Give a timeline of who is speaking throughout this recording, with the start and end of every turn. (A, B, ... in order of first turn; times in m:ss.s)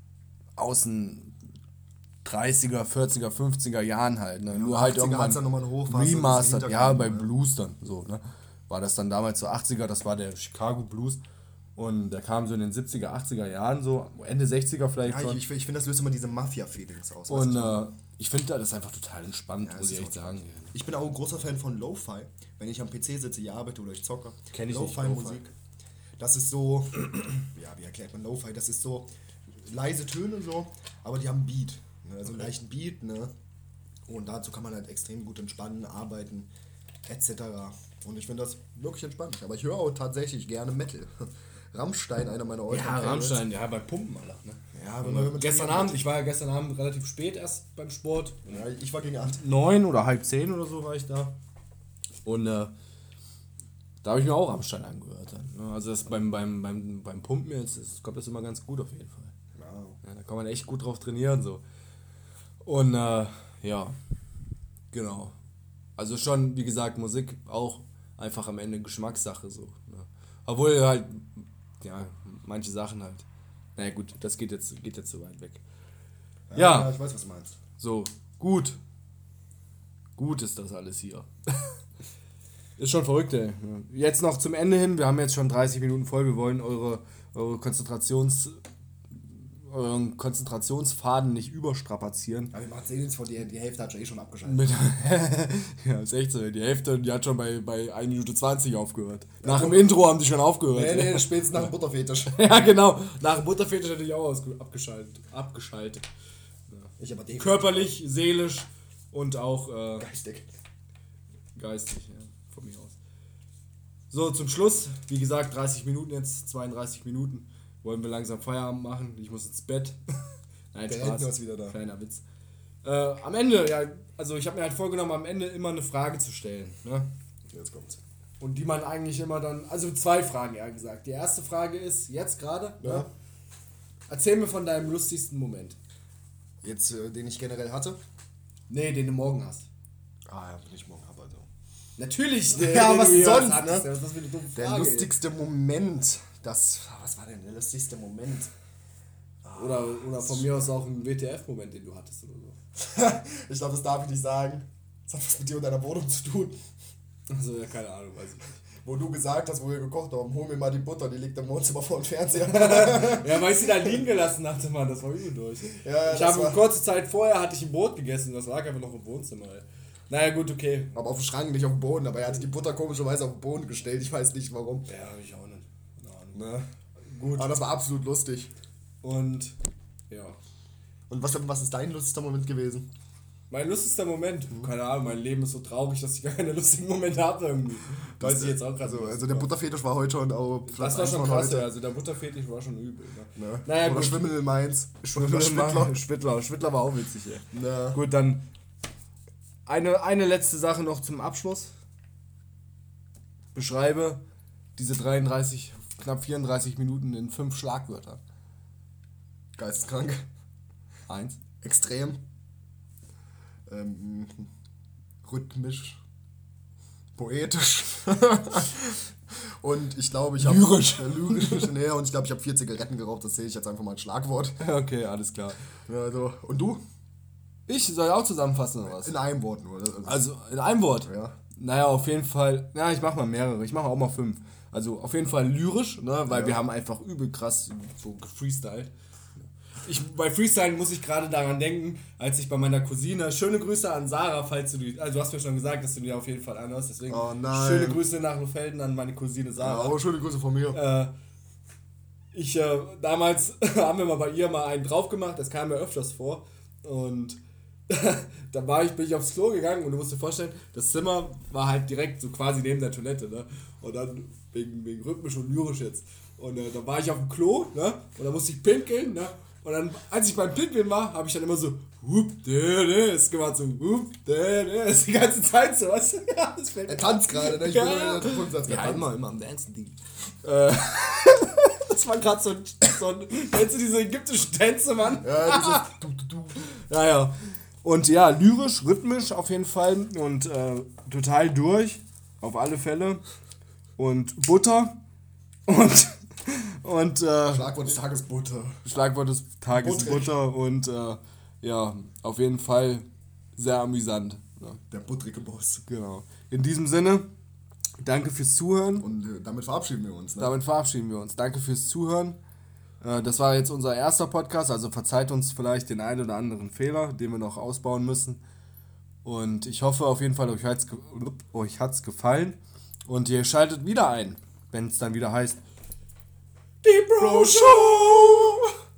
0:00.6-0:01.4 A
0:02.2-0:11.2 A
0:04.5-0:07.3 B
0:11.8-0:15.4 A
0:15.0-0:17.8 B
0:17.3-0:20.7 A
0:19.6-0:25.5 B
0:24.5-0:25.4 A
0:26.2-0:33.3 B
0:34.1-0:36.5 B
0:37.0-0:43.4 B
0:42.7-0:48.6 A
0:44.7-0:46.0 B
0:48.5-0:49.4 B
0:49.3-0:51.4 A
0:52.2-0:52.7 A
0:54.0-0:59.3 A
0:59.6-1:00.0 B
1:00.0-1:01.6 A
1:02.6-1:04.0 A
1:04.9-1:05.4 A
1:06.0-1:15.6 A
1:16.5-1:17.6 B
1:16.6-1:16.9 A
1:17.8-1:18.8 A
1:20.2-1:21.8 A
1:22.8-1:28.6 A
1:29.1-1:32.5 A
1:32.5-1:34.7 B
1:34.4-1:41.7 A
1:39.4-1:39.9 B
1:40.7-1:42.4 B
1:42.3-1:46.1 A
1:46.7-1:50.1 A
1:47.0-1:47.9 B
1:50.0-1:50.5 B
1:51.6-1:53.0 A
1:54.1-2:00.0 A
2:00.7-2:02.2 A
2:00.9-2:01.8 B
2:02.8-2:07.1 A
2:07.5-2:08.0 B
2:08.4-2:13.1 A
2:12.8-2:13.1 B
2:14.1-2:15.8 A
2:16.6-2:18.0 B
2:18.7-2:19.7 A
2:20.3-2:21.5 B
2:22.0-2:25.1 A
2:22.5-2:23.9 B
2:24.5-2:28.5 B
2:29.4-2:30.6 B
2:29.6-2:32.6 A
2:32.8-2:36.6 B
2:37.3-2:38.6 A
2:38.8-2:44.0 B
2:42.4-2:50.9 A
2:45.7-2:46.7 B
2:50.9-2:54.9 B
2:54.9-2:56.4 A
2:56.3-2:56.7 B
2:57.1-2:57.6 A
2:57.3-2:58.5 B
2:59.0-2:59.6 A
3:00.1-3:00.4 A
3:01.1-3:02.9 B
3:03.5-3:09.5 A
3:08.2-3:11.7 B
3:10.7-3:14.3 A
3:13.4-3:16.0 B
3:15.1-3:18.4 A
3:17.5-3:18.0 B
3:19.6-3:21.7 A
3:23.6-3:24.2 A
3:24.8-3:28.2 A
3:29.6-3:30.2 B
3:31.1-3:31.4 A
3:31.6-3:32.2 B
3:33.7-3:34.5 B
3:35.2-3:36.0 B
3:37.2-3:44.6 B
3:40.4-3:41.7 A
3:44.6-3:45.6 A
3:45.9-3:46.8 B
3:47.7-3:49.2 A
3:48.8-3:50.2 B
3:50.0-3:58.9 A
3:51.0-3:51.4 B
3:56.3-3:56.6 B
3:59.8-4:10.0 A
4:07.1-4:08.0 B
4:09.6-4:10.8 B
4:10.7-4:11.1 A
4:12.3-4:45.9 A
4:36.9-4:39.1 B
4:45.2-4:46.6 B
4:46.6-4:53.2 A
4:54.0-4:55.0 A
4:55.7-4:57.7 A
4:57.5-4:58.8 B
4:58.8-5:03.0 A
4:59.7-5:00.4 B
5:03.6-5:04.8 A
5:04.9-5:05.8 B
5:05.9-5:07.3 A
5:08.0-5:09.1 A
5:09.0-5:10.6 B
5:10.4-5:12.4 A
5:13.0-5:18.4 A
5:19.2-5:25.6 A
5:26.8-5:28.5 A
5:27.2-5:28.7 B